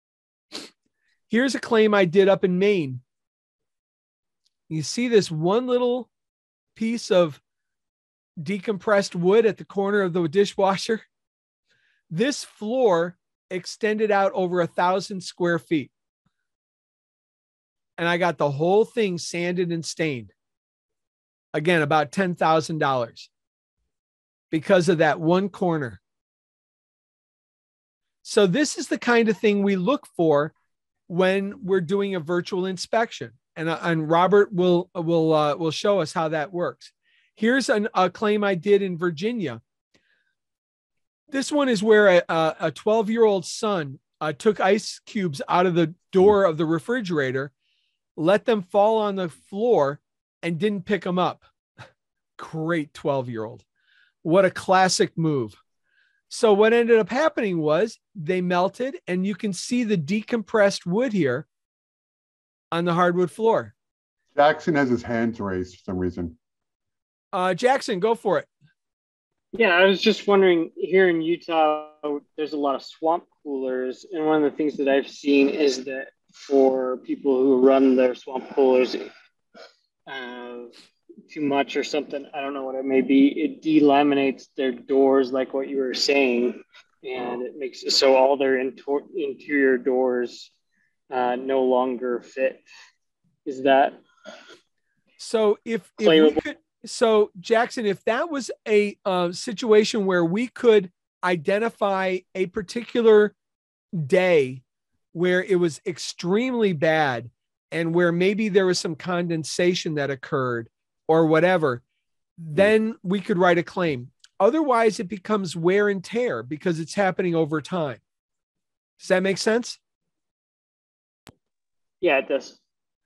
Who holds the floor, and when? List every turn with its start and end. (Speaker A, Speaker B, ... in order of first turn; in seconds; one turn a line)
Speaker A: 1.3-3.0
Speaker A: 4.7-6.1
Speaker A: 6.8-7.4
Speaker A: 8.4-11.0
Speaker A: 12.1-15.9
Speaker A: 18.0-20.3
Speaker A: 21.5-23.3
Speaker A: 24.5-26.0
Speaker A: 28.2-30.5
Speaker A: 31.1-39.6
Speaker A: 41.3-47.5
Speaker A: 48.2-51.4
Speaker A: 52.4-53.6
Speaker A: 54.2-55.6
Speaker A: 56.3-61.5
Speaker A: 62.7-63.7
Speaker B: 64.3-66.4
Speaker A: 67.3-68.5
Speaker C: 69.5-79.1
Speaker C: 80.1-80.7
Speaker C: 81.3-90.5
Speaker C: 91.1-92.7
Speaker C: 93.5-94.0
Speaker A: 95.2-103.3
Speaker C: 96.0-96.4
Speaker A: 104.0-104.6
Speaker A: 105.1-111.8
Speaker A: 112.4-118.0
Speaker A: 119.0-119.8
Speaker C: 122.0-122.6